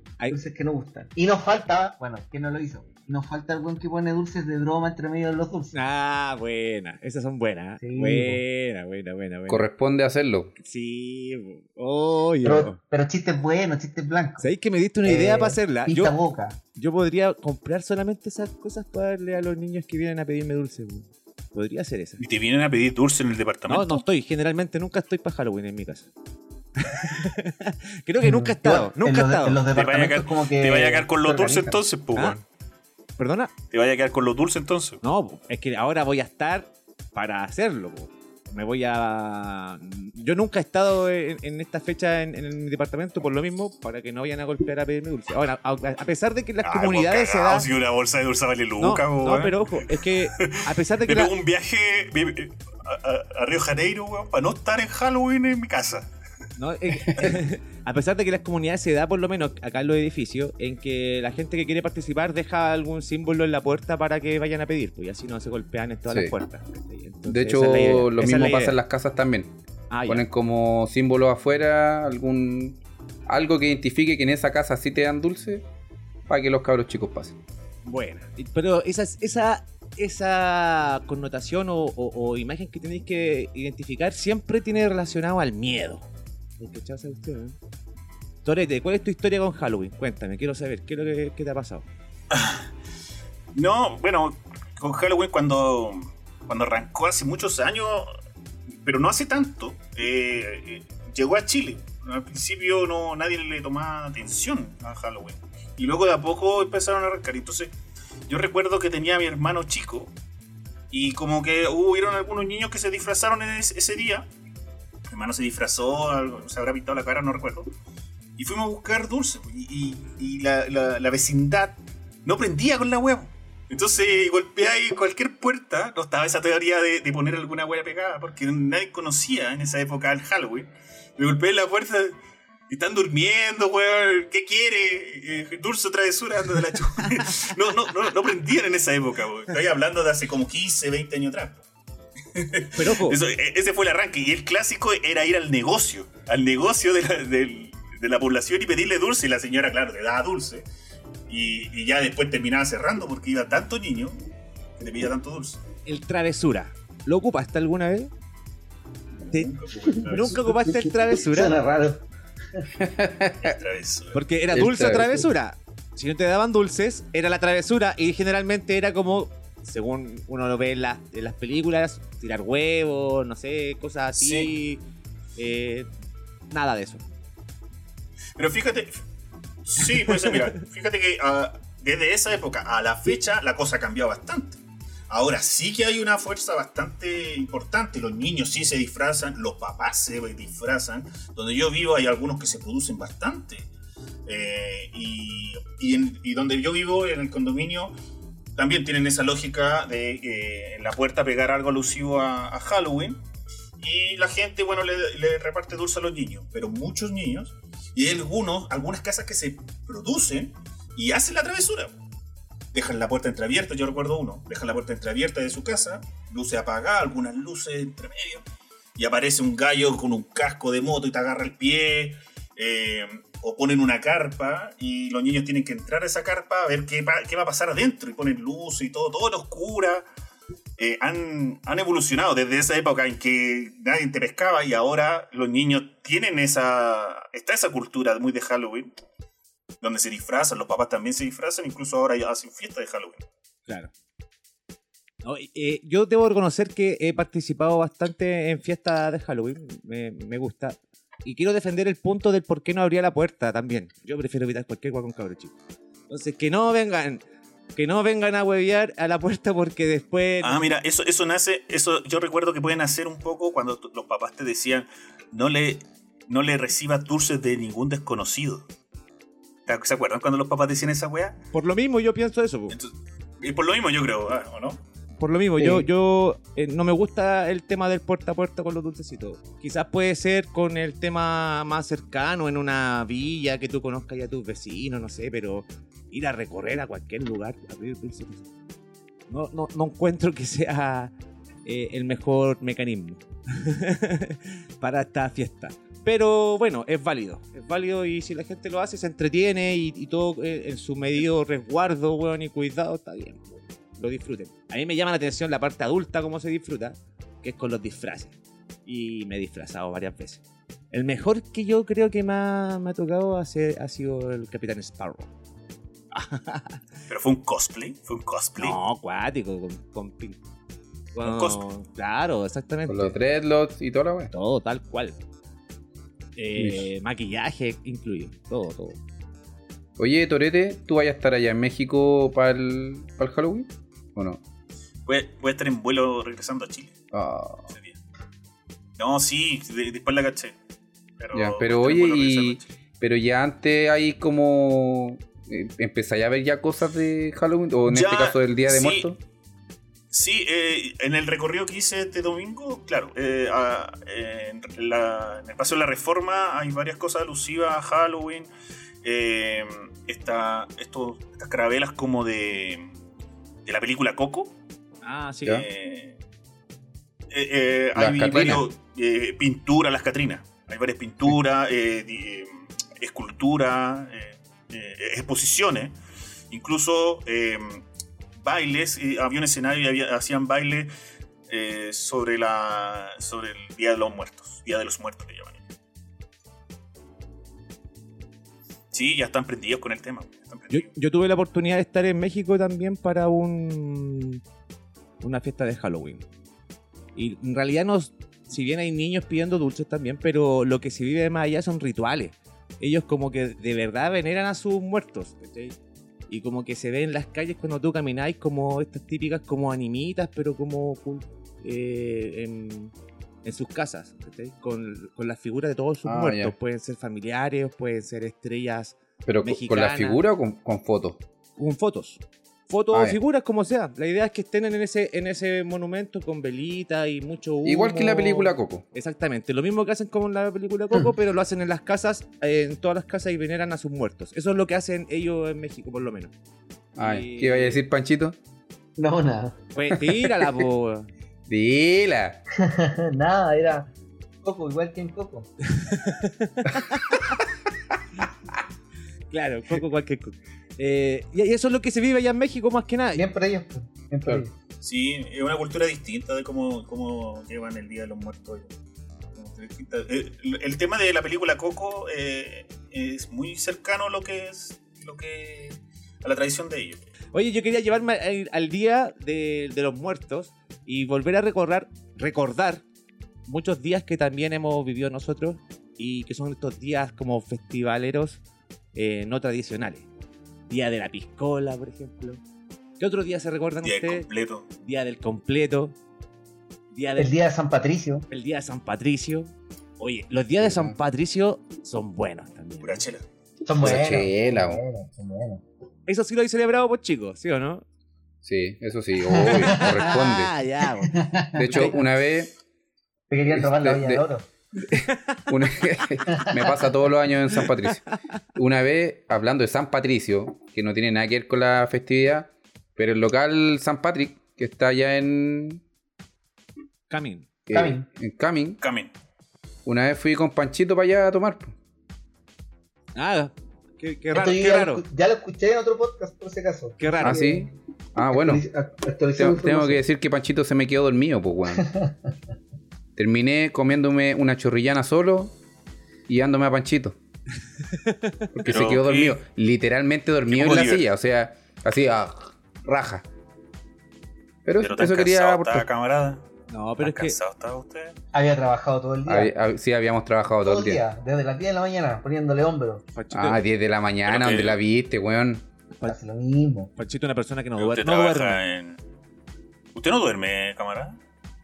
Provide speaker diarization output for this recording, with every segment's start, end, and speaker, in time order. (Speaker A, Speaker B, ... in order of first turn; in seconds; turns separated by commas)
Speaker A: 0.3-5.8, Speaker B: 5.7-9.7, Speaker A: 7.8-8.4, Speaker C: 9.5-10.5, Speaker B: 10.6-12.8, Speaker A: 12.4-14.4, Speaker B: 14.4-16.2, Speaker A: 15.1-16.6, Speaker B: 16.8-22.2, Speaker D: 22.2-24.0, Speaker B: 23.7-26.1, Speaker B: 26.8-29.7, Speaker A: 28.2-31.8, Speaker D: 29.7-32.4, Speaker B: 33.2-33.5, Speaker D: 33.7-35.0, Speaker B: 35.0-47.7, Speaker D: 46.6-56.1, Speaker B: 48.8-51.3, Speaker B: 56.6-68.8, Speaker C: 67.2-69.5, Speaker B: 69.9-70.2, Speaker C: 70.1-75.7, Speaker C: 76.3-77.3, Speaker B: 77.8-86.1, Speaker B: 86.6-87.6, Speaker B: 88.5-91.9, Speaker D: 92.3-92.7, Speaker D: 93.5-98.1, Speaker D: 98.8-107.7, Speaker D: 108.3-110.1, Speaker D: 110.9-114.3, Speaker D: 115.1-117.7, Speaker D: 118.4-132.2, Speaker D: 132.7-141.6, Speaker D: 142.3-150.7, Speaker B: 142.8-143.2, Speaker D: 151.3-154.2, Speaker D: 154.8-155.6, Speaker B: 155.9-158.1, Speaker D: 159.3-160.8, Speaker B: 159.3-161.6, Speaker A: 160.8-162.7, Speaker C: 162.8-163.6, Speaker D: 163.4-164.2, Speaker B: 164.1-174.8, Speaker C: 164.5-165.3, Speaker D: 174.2-174.5, Speaker B: 175.4-175.9, Speaker B: 176.5-177.1, Speaker D: 178.4-179.0, Speaker D: 179.7-193.7, Speaker B: 180.1-180.3, Speaker D: 194.3-197.9, Speaker D: 198.6-203.2, Speaker D: 203.8-211.9, Speaker D: 212.7-218.4, Speaker D: 219.0-230.1, Speaker D: 230.8-238.9, Speaker D: 239.8-243.3, Speaker B: 245.2-255.6, Speaker B: 256.1-257.2, Speaker B: 257.8-260.6, Speaker D: 260.4-268.6, Speaker D: 269.7-271.4, Speaker B: 271.5-272.8, Speaker D: 272.7-274.8, Speaker B: 275.2-288.5, Speaker A: 275.6-275.9, Speaker B: 289.3-291.1, Speaker B: 291.6-315.3, Speaker B: 316.1-316.8, Speaker D: 317.1-318.8, Speaker B: 318.6-320.4, Speaker B: 321.1-323.2, Speaker D: 321.2-321.6, Speaker C: 322.9-324.3, Speaker B: 324.3-325.2, Speaker B: 326.4-329.0, Speaker C: 326.6-326.9, Speaker C: 330.0-334.4, Speaker D: 335.1-337.0, Speaker C: 337.1-337.7, Speaker D: 337.7-338.0, Speaker D: 339.0-340.6, Speaker D: 341.2-342.7, Speaker C: 341.3-349.2, Speaker D: 347.9-349.1, Speaker D: 350.1-358.5, Speaker D: 359.0-362.9, Speaker D: 363.6-364.5, Speaker B: 365.0-365.6, Speaker D: 365.5-366.2, Speaker D: 367.3-375.9, Speaker C: 368.0-368.6, Speaker D: 376.5-377.8, Speaker D: 378.4-380.9, Speaker D: 381.5-385.6, Speaker D: 388.9-390.9, Speaker B: 390.7-394.4, Speaker B: 395.2-396.3, Speaker B: 397.1-405.8, Speaker B: 406.3-412.9, Speaker B: 413.4-420.2, Speaker C: 416.1-416.5, Speaker C: 419.2-421.2, Speaker B: 421.6-436.3, Speaker C: 422.9-423.2, Speaker C: 427.6-428.9, Speaker C: 437.0-438.4, Speaker B: 437.0-437.8, Speaker A: 439.0-439.6, Speaker B: 439.7-441.1, Speaker C: 439.9-440.6, Speaker C: 441.5-442.4, Speaker A: 442.6-443.9, Speaker A: 444.4-445.5, Speaker B: 445.7-447.4, Speaker B: 449.3-453.3, Speaker A: 453.1-454.5, Speaker D: 454.8-458.7, Speaker D: 459.4-467.0, Speaker B: 467.3-472.9, Speaker B: 473.5-478.4, Speaker B: 478.9-480.1, Speaker B: 480.7-482.4, Speaker B: 483.0-484.3, Speaker D: 483.8-484.7, Speaker B: 484.8-486.0, Speaker B: 486.9-487.4, Speaker A: 487.2-488.3, Speaker B: 488.3-493.0, Speaker C: 490.6-490.9, Speaker D: 492.8-493.2, Speaker A: 493.6-495.6, Speaker C: 493.8-494.8, Speaker B: 496.1-497.8, Speaker C: 498.4-500.5, Speaker A: 499.2-500.0, Speaker B: 499.4-501.2, Speaker A: 501.1-502.0, Speaker C: 501.6-502.5, Speaker B: 501.7-502.0, Speaker A: 503.3-504.4, Speaker C: 503.5-504.2, Speaker C: 504.8-508.0, Speaker B: 504.9-505.4, Speaker C: 508.6-515.8, Speaker B: 517.1-517.5, Speaker C: 517.7-518.8, Speaker A: 517.7-518.1, Speaker D: 518.8-519.1, Speaker C: 519.9-521.8, Speaker B: 523.1-525.0, Speaker A: 524.3-527.7, Speaker B: 527.0-527.6, Speaker C: 527.2-528.6, Speaker A: 528.3-530.0, Speaker C: 529.4-531.9, Speaker A: 531.7-532.2, Speaker C: 533.2-535.5, Speaker C: 536.3-537.2, Speaker B: 537.9-538.5, Speaker C: 538.5-543.2, Speaker D: 538.6-539.4, Speaker D: 540.5-541.1, Speaker C: 544.6-545.9, Speaker D: 544.8-546.5, Speaker B: 546.7-547.4, Speaker D: 547.0-548.2, Speaker A: 548.3-549.5, Speaker C: 549.3-551.0, Speaker A: 550.6-553.0, Speaker B: 553.1-553.6, Speaker C: 553.3-555.6, Speaker D: 554.3-554.8, Speaker A: 556.1-556.9, Speaker B: 557.0-558.6, Speaker D: 557.8-559.0, Speaker D: 560.0-561.2